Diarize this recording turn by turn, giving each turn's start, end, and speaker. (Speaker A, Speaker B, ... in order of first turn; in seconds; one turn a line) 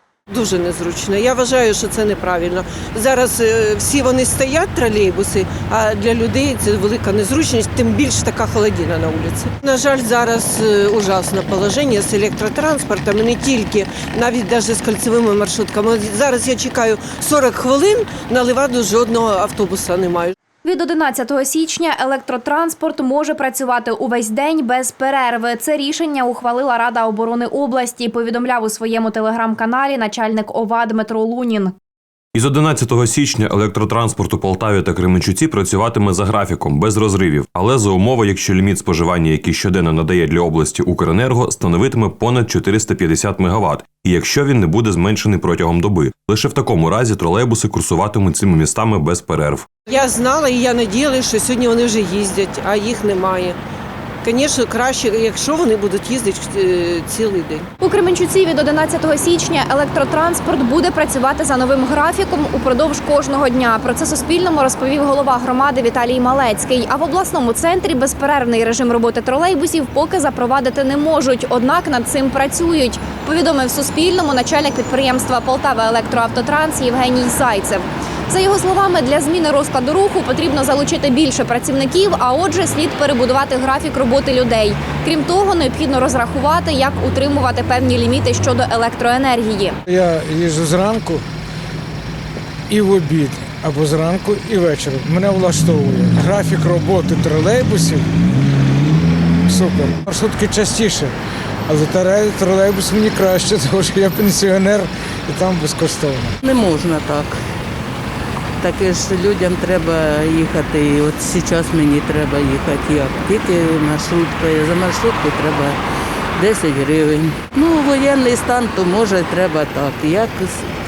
Speaker A: 0.3-20.3
Speaker B: 20.6-31.7
Speaker C: 32.3-49.7
Speaker A: 49.9-53.6
Speaker A: 54.2-57.7
Speaker B: 57.8-89.8
Speaker D: 89.9-91.2
Speaker D: 92.7-98.1
Speaker D: 99.5-101.1
Speaker D: 101.7-106.4
Speaker E: 106.4-107.4
Speaker E: 108.6-115.8
Speaker E: 116.3-120.7